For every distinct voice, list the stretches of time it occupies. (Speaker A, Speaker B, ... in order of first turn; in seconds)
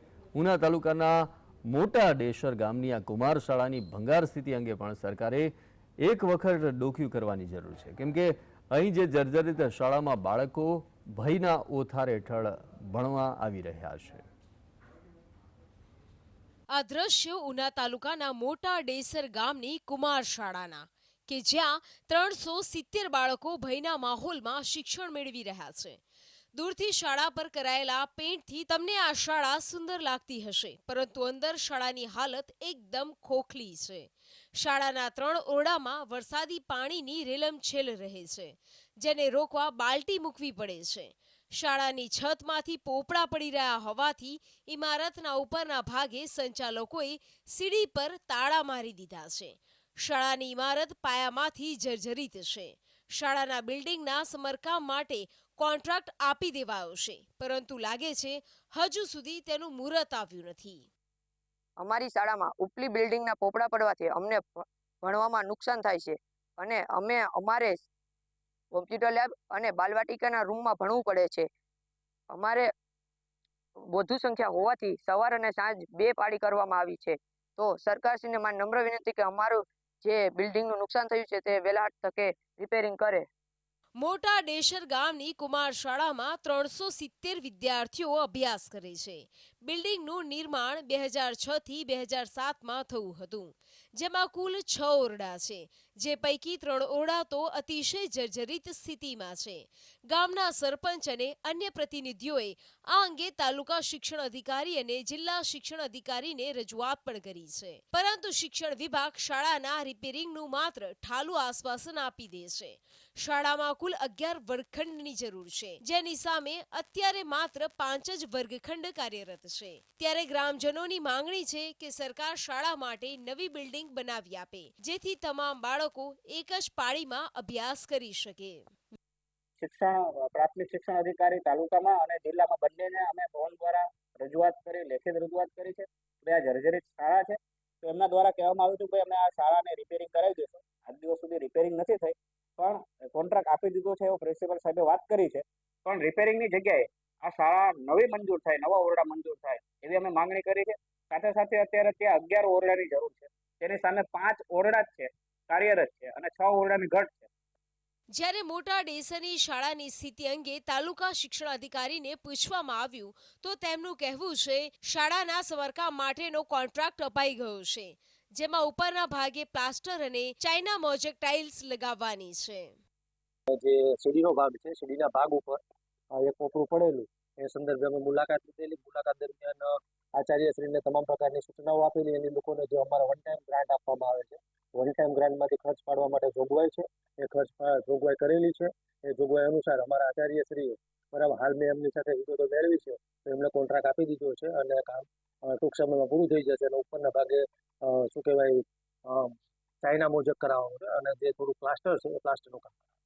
Speaker A: 0.3-6.4, 129.6-157.3
Speaker B: 6.4-14.2
Speaker C: 16.7-26.0, 26.5-60.9, 84.0-128.7, 158.1-172.8
Speaker D: 61.8-67.8, 68.7-71.5, 72.3-72.7, 73.9-83.2
Speaker E: 173.5-175.6, 176.2-202.8